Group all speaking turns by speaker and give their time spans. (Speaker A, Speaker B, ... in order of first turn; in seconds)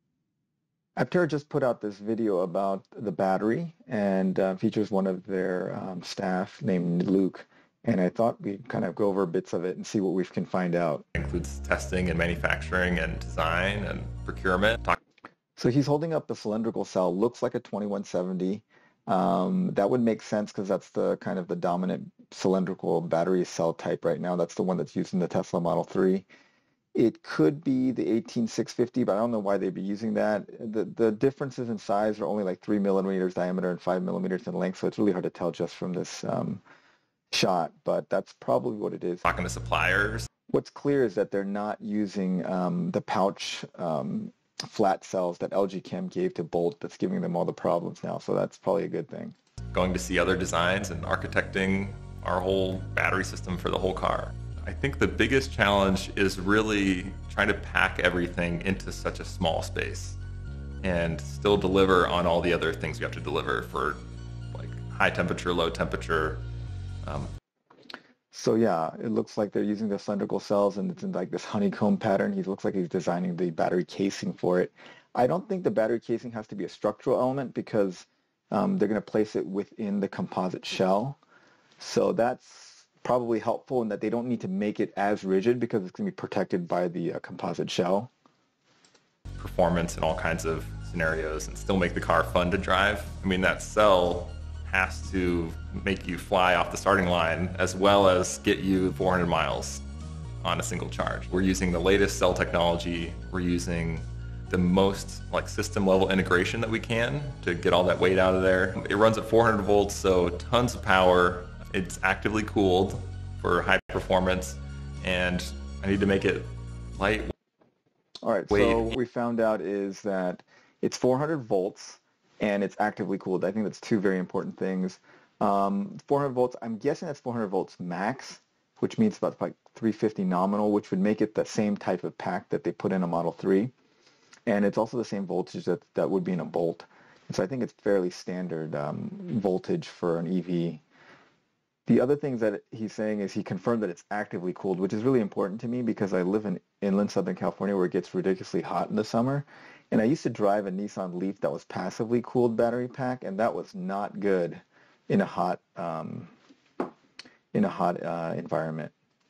Speaker A: 1.0-11.0, 15.6-26.3, 26.9-36.6, 37.3-39.2, 40.5-49.3, 68.3-81.2, 81.8-88.1, 118.2-133.7, 134.5-140.8, 141.9-156.3, 157.5-158.9
Speaker B: 11.1-15.0, 39.2-40.3, 49.7-60.2, 60.8-64.0, 64.5-66.5, 67.0-67.3, 89.4-99.8, 100.4-117.3, 118.5-119.0